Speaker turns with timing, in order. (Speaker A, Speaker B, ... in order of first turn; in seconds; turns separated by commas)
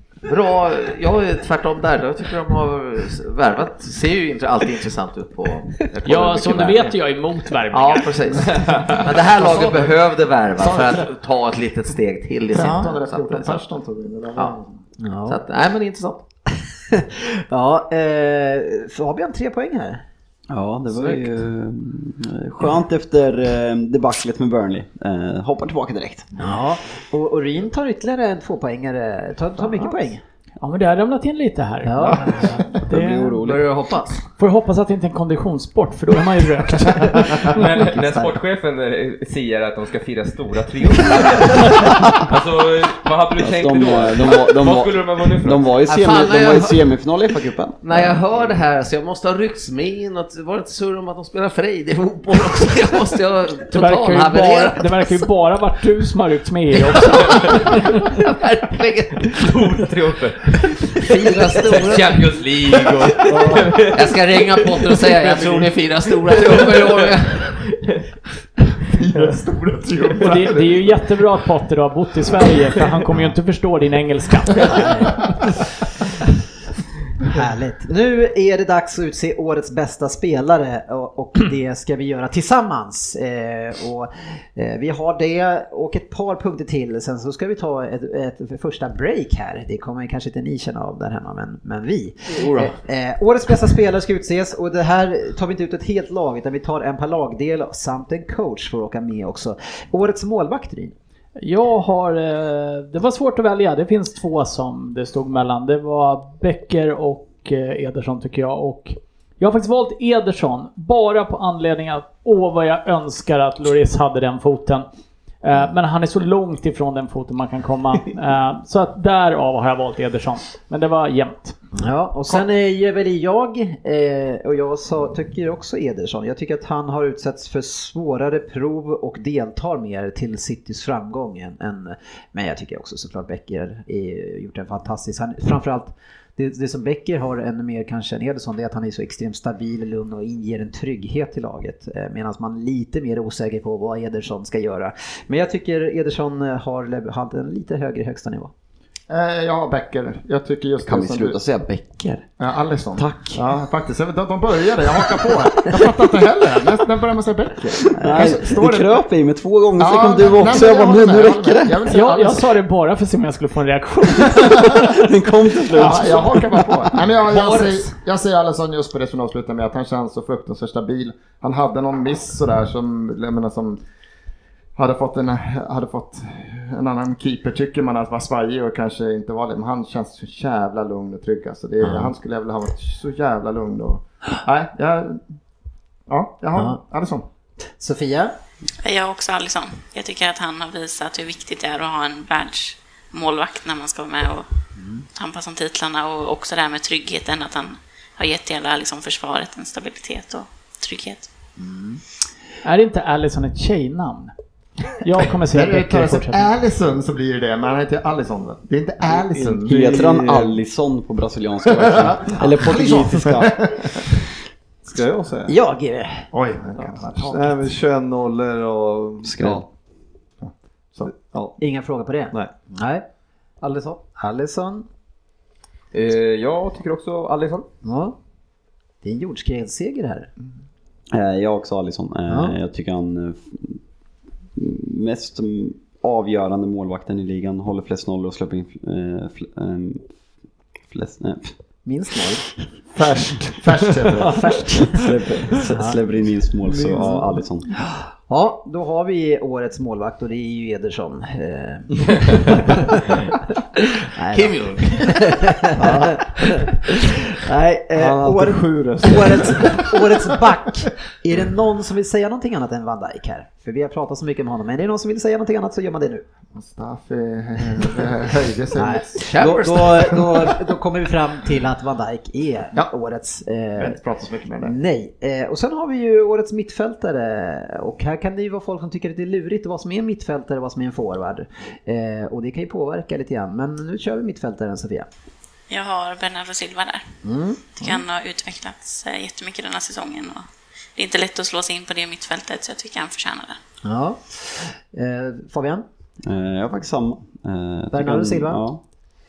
Speaker A: 0.2-7.0, Speaker B: 6.0-8.2, Speaker A: 7.7-13.6, Speaker C: 8.6-9.0, Speaker D: 10.6-11.0, Speaker D: 12.5-14.7, Speaker E: 12.6-12.9, Speaker E: 15.0-15.4, Speaker A: 15.2-16.2, Speaker E: 16.9-20.0, Speaker F: 20.5-26.3, Speaker E: 26.3-30.2, Speaker B: 30.6-33.4, Speaker E: 31.8-32.4, Speaker F: 32.9-33.7, Speaker A: 33.4-34.2, Speaker B: 34.4-37.5, Speaker C: 37.4-45.6, Speaker E: 37.8-38.3, Speaker F: 43.4-48.1, Speaker A: 45.9-46.8, Speaker A: 47.8-55.1, Speaker B: 53.7-57.6, Speaker A: 56.8-59.5, Speaker C: 59.3-60.5, Speaker A: 61.0-67.6, Speaker C: 61.2-65.7, Speaker G: 63.3-63.6, Speaker C: 66.2-67.1, Speaker D: 68.9-70.9, Speaker B: 70.2-74.9, Speaker E: 74.6-75.2, Speaker E: 77.2-100.9, Speaker A: 92.4-92.7, Speaker B: 101.4-114.9, Speaker B: 115.4-121.5, Speaker E: 121.7-148.5, Speaker D: 149.1-151.4, Speaker F: 150.8-152.3, Speaker D: 152.4-159.0, Speaker F: 152.9-153.4, Speaker E: 158.0-158.3, Speaker F: 158.0-161.8, Speaker D: 159.8-162.5, Speaker B: 161.9-165.0, Speaker F: 164.6-166.6, Speaker D: 165.7-173.8, Speaker B: 167.3-167.7, Speaker D: 174.8-185.2, Speaker E: 181.8-182.1, Speaker D: 186.1-187.2, Speaker E: 186.5-186.8, Speaker E: 187.8-188.3, Speaker H: 188.8-194.4, Speaker E: 194.8-195.0, Speaker H: 195.1-201.3, Speaker E: 201.6-202.0, Speaker B: 202.6-204.3, Speaker B: 205.0-206.5, Speaker D: 205.5-210.0, Speaker G: 209.3-210.5, Speaker F: 209.6-213.6, Speaker D: 211.8-214.1, Speaker G: 214.8-215.5, Speaker E: 215.5-216.3, Speaker D: 216.3-217.5, Speaker G: 217.0-219.7, Speaker F: 219.2-219.6, Speaker D: 220.4-221.1, Speaker G: 221.0-221.6, Speaker E: 221.6-223.0, Speaker A: 223.6-224.0, Speaker E: 223.7-224.8, Speaker C: 225.9-227.7, Speaker E: 227.8-228.2, Speaker E: 229.0-230.3, Speaker F: 231.1-233.8, Speaker E: 232.3-232.6, Speaker F: 234.6-240.1, Speaker F: 240.9-241.5, Speaker E: 241.8-242.4, Speaker D: 242.9-244.4, Speaker E: 244.3-245.0, Speaker F: 244.9-247.7, Speaker E: 245.7-246.0, Speaker E: 248.3-253.2, Speaker E: 254.1-266.2, Speaker A: 254.3-255.7, Speaker G: 257.9-260.1, Speaker D: 266.5-269.2, Speaker E: 268.7-274.0, Speaker A: 269.2-270.2, Speaker D: 273.8-274.8, Speaker E: 274.6-285.1, Speaker H: 285.7-287.0, Speaker E: 287.2-288.0, Speaker H: 287.8-290.4, Speaker H: 290.9-293.6, Speaker E: 293.8-295.8, Speaker F: 296.2-298.8, Speaker E: 297.9-298.6